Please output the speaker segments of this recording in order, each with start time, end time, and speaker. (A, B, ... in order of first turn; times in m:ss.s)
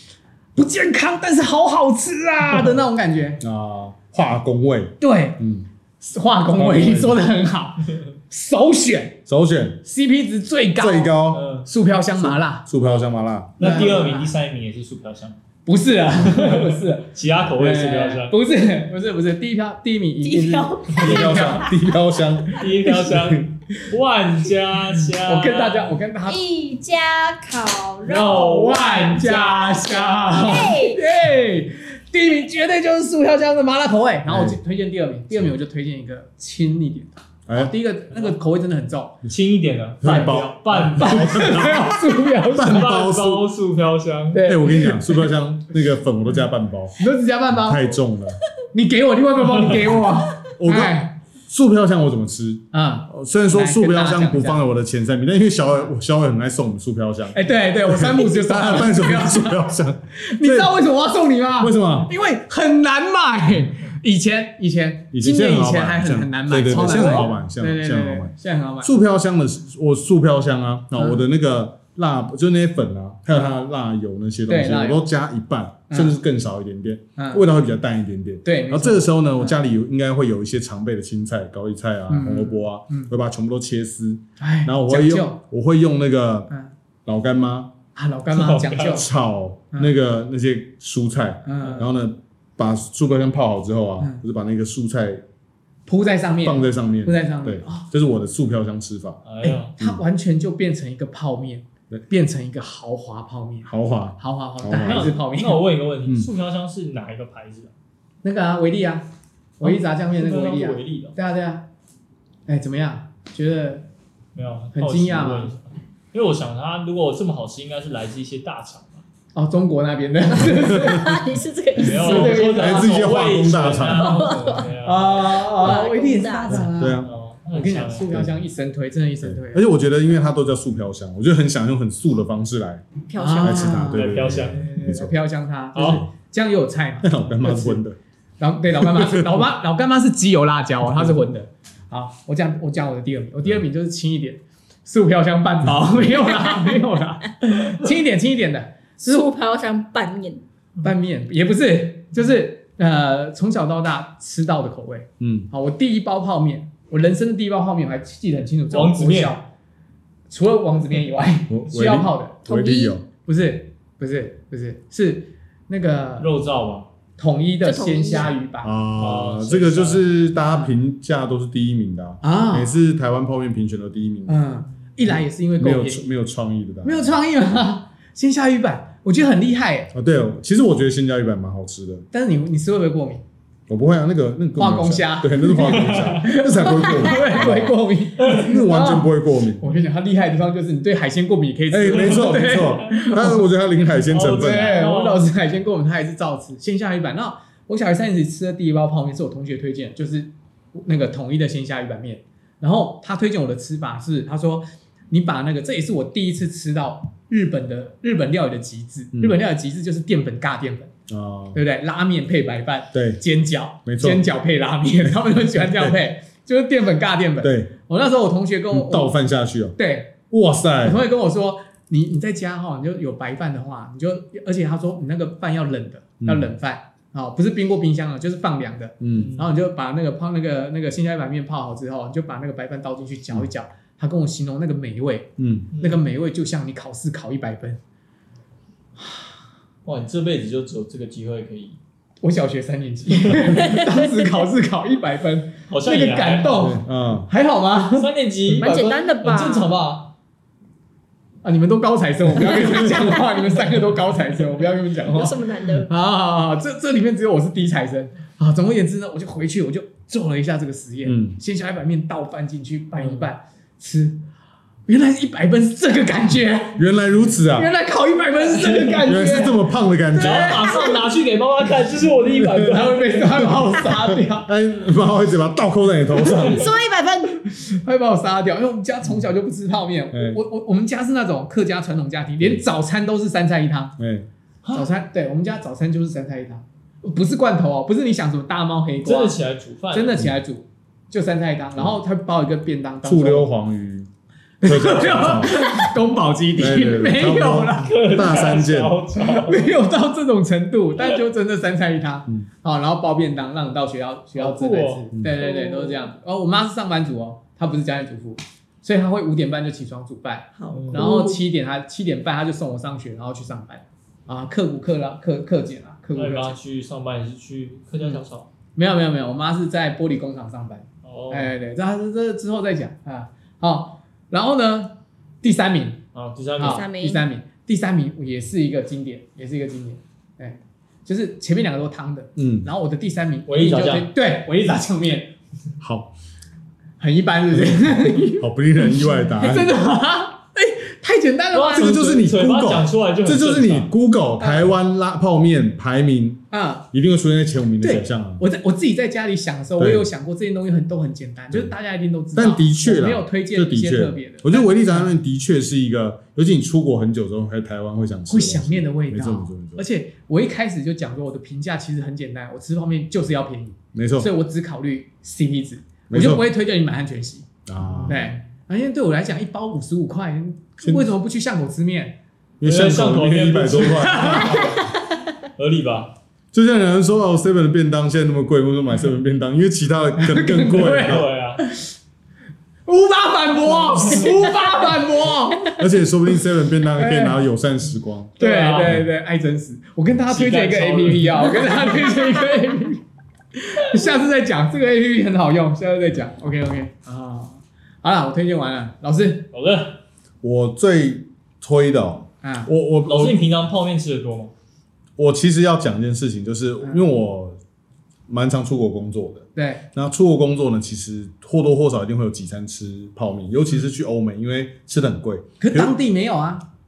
0:00.6-0:03.4 A
0:03.4-0:05.6 B
0:05.0-0:05.4 A
0:06.0-0:09.2 A
0:06.5-0:07.2 B
0:09.2-0:09.8 B
0:09.8-0:12.7 A
0:10.8-0:11.5 B
0:11.3-0:11.7 C
0:12.2-0:14.0 B
0:13.6-0:14.3 A
0:13.6-0:15.4 C
0:15.6-0:21.8 A
0:16.3-0:18.4 C
0:20.2-0:21.8 D
0:21.0-0:23.4 B
0:22.6-0:26.0 C
0:25.2-0:26.4 A
0:26.2-0:28.5 D
0:28.0-0:29.9 C
0:28.2-0:39.2 A
0:30.3-0:31.0 D
0:34.3-0:34.6 B
0:37.5-0:37.7 B
0:39.3-0:41.6 C
0:40.0-0:43.4 B
0:40.0-0:42.9 A
0:42.5-0:44.4 C
0:44.3-0:45.3 A
0:44.4-0:47.0 B
0:47.0-0:48.0 A
0:47.5-0:48.4 B
0:48.7-0:51.2 A
0:50.4-1:00.7 B
0:52.7-0:54.6 A
0:57.3-0:59.6 A
1:00.2-1:08.9 A
1:01.6-1:02.1 B
1:05.1-1:26.5 B
1:06.7-1:07.2 C
1:10.9-1:11.2 A
1:14.5-1:15.0 A
1:15.9-1:16.2 A
1:17.2-1:17.4 A
1:18.4-1:19.6 A
1:22.1-1:23.1 A
1:24.4-1:25.4 A
1:27.0-1:27.7 B
1:27.9-1:29.1 A
1:28.3-1:29.0 C
1:28.8-1:35.2 B
1:31.4-1:31.9 A
1:35.8-1:37.8 A
1:36.4-1:39.2 B
1:39.2-1:39.7 C
1:39.4-1:45.6 A
1:43.6-1:45.1 B
1:44.8-1:47.7 C
1:48.2-1:49.0 A
1:49.6-1:51.6 A
1:49.6-1:51.2 C
1:52.5-1:53.9 A
1:54.3-1:59.0 C
1:54.7-1:55.5 A
1:59.3-2:01.2 A
2:00.4-2:02.4 D
2:01.8-2:05.8 C
2:01.8-2:03.1 A
2:02.0-2:04.3 B
2:03.9-2:04.7 D
2:04.3-2:09.6 A
2:05.4-2:06.7 D
2:06.5-2:07.1 B
2:07.0-2:08.1 C
2:08.1-2:08.4 B
2:09.2-2:12.8 B
2:13.1-2:13.9 D
2:13.2-2:17.8 A
2:13.4-2:15.1 B
2:13.9-2:14.7 C
2:15.7-2:16.0 C
2:15.8-2:16.1 B
2:17.0-2:18.0 B
2:18.4-2:28.8 A
2:18.8-2:19.4 B
2:26.4-2:26.7 D
2:29.0-2:30.4 D
2:30.8-2:39.5 A
2:35.2-2:35.5 B
2:38.7-2:39.4 C
2:40.3-2:42.4 A
2:41.5-2:43.0 B
2:42.4-2:43.0 D
2:43.2-2:46.3 A
2:46.2-2:46.9 C
2:47.2-2:48.7 A
2:47.6-2:48.3 D
2:48.6-2:54.4 B
2:49.0-2:50.0 C
2:50.5-2:50.7 A
2:52.2-2:52.7 A
2:54.3-2:56.1 A
2:55.1-2:57.1 B
2:56.8-2:59.9 A
2:59.9-3:02.0 B
3:02.1-3:03.2 A
3:03.7-3:09.6 B
3:04.6-3:13.4 A
3:05.6-3:06.2 C
3:11.7-3:14.7 B
3:11.9-3:12.8 C
3:14.0-3:15.2 C
3:14.2-3:30.9 A
3:31.1-3:31.6 B
3:31.5-3:39.1 A
3:32.9-3:33.2 B
3:33.8-3:34.2 B
3:37.4-3:37.7 B
3:38.7-3:39.8 B
3:39.8-3:40.1 A
3:40.3-3:41.0 B
3:40.8-3:57.8 A
3:46.2-3:46.5 B
3:49.0-3:49.3 B
3:49.2-3:49.5 C
3:55.4-3:55.7 B
3:55.7-3:56.0 C
3:59.8-4:01.8 C
4:02.2-4:08.1 A
4:03.2-4:03.6 C
4:03.6-4:03.9 D
4:05.7-4:06.8 C
4:06.6-4:07.3 B
4:07.9-4:10.1 C
4:08.5-4:09.7 D
4:08.6-4:08.9 A
4:11.4-4:24.2 A
4:15.1-4:15.9 D
4:21.0-4:21.4 B
4:23.0-4:23.3 C
4:24.9-4:26.8 A
4:26.8-4:27.7 B
4:27.4-4:30.9 A
4:28.6-4:29.0 C
4:29.0-4:30.6 B
4:30.1-4:33.7 C
4:32.4-4:32.7 B
4:32.6-4:34.5 A
4:33.9-4:36.7 B
4:36.2-4:43.9 A
4:36.5-4:37.3 D
4:40.1-4:40.4 B
4:44.0-4:44.3 B
4:44.7-4:49.4 A
4:49.0-4:50.2 C
4:49.9-4:53.5 A
4:53.0-4:54.1 B
4:54.6-4:57.9 A
4:54.6-4:55.7 B
4:56.6-4:59.0 B
4:57.8-4:59.7 C
4:59.2-5:16.6 A
5:04.4-5:05.7 C
5:10.5-5:11.4 D
5:10.7-5:11.3 C
5:16.2-5:18.5 C
5:18.7-5:26.0 A
5:21.0-5:21.5 C
5:26.1-5:26.9 C
5:26.6-5:35.3 A
5:26.6-5:27.2 D
5:32.4-5:32.7 B
5:33.5-5:34.1 C
5:35.8-5:36.1 B
5:37.0-5:42.0 A
5:37.5-5:39.8 B
5:41.5-5:43.9 C
5:41.7-5:48.4 B
5:44.4-5:44.7 A
5:46.5-5:46.9 A
5:47.8-5:55.1 A
5:49.8-5:50.1 B
5:52.3-5:59.8 B
5:58.3-6:07.5 A
6:03.9-6:04.3 B
6:06.1-6:06.4 B
6:07.6-6:08.3 B
6:08.1-6:12.2 A
6:12.6-6:14.7 B
6:12.6-6:15.0 C
6:14.0-6:14.8 A
6:15.6-6:16.1 C
6:16.5-6:21.3 B
6:20.2-6:21.9 A
6:20.9-6:21.6 C
6:22.9-6:25.8 A
6:23.9-6:24.4 C
6:25.7-6:28.4 B
6:27.0-6:27.4 A
6:28.4-6:33.0 A
6:28.4-6:29.0 C
6:30.3-6:32.3 C
6:33.5-6:39.5 A
6:39.5-6:40.0 C
6:40.4-6:43.4 B
6:42.4-6:42.7 A
6:43.0-6:44.5 C
6:45.2-6:47.6 B
6:48.3-6:55.9 B
6:49.6-6:49.8 A
6:55.6-6:56.6 A